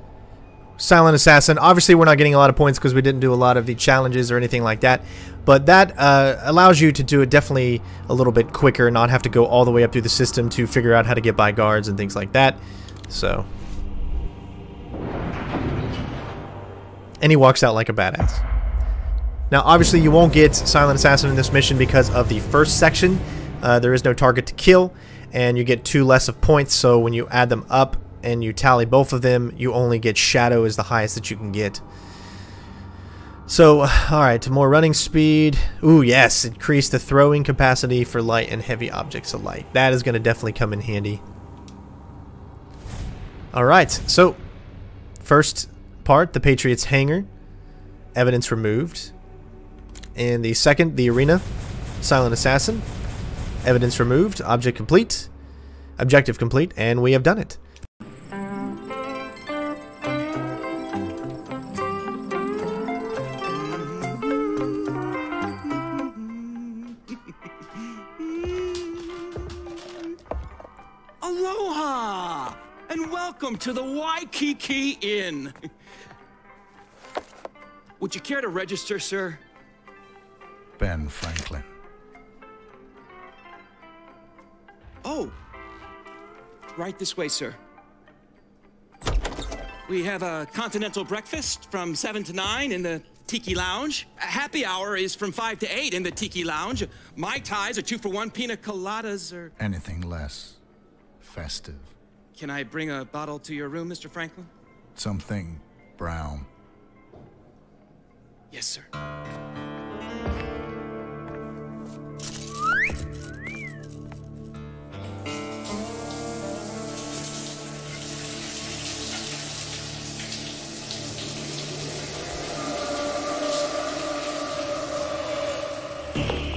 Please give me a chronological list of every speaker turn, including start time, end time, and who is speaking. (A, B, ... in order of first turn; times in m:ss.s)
0:00.8-0:13.5 A
0:17.2-0:18.4 A
0:19.5-0:31.8 A
0:33.5-0:41.2 A
0:43.5-0:44.4 A
0:45.2-0:47.3 A
0:48.1-0:49.1 A
0:50.1-0:51.4 A
0:52.0-0:52.8 A
0:53.6-0:55.3 A
0:56.0-0:57.6 A
1:03.6-1:04.4 B
1:06.0-1:06.9 B
1:08.2-1:09.3 B
1:11.2-1:15.6 B
1:18.0-1:19.4 B
1:20.8-1:21.7 C
1:25.0-1:25.3 B
1:26.7-1:27.6 B
1:29.9-1:39.5 B
1:39.6-1:40.6 C
1:41.2-1:41.9 C
1:42.4-1:44.5 B
1:45.0-1:46.5 C
1:48.5-1:48.9 B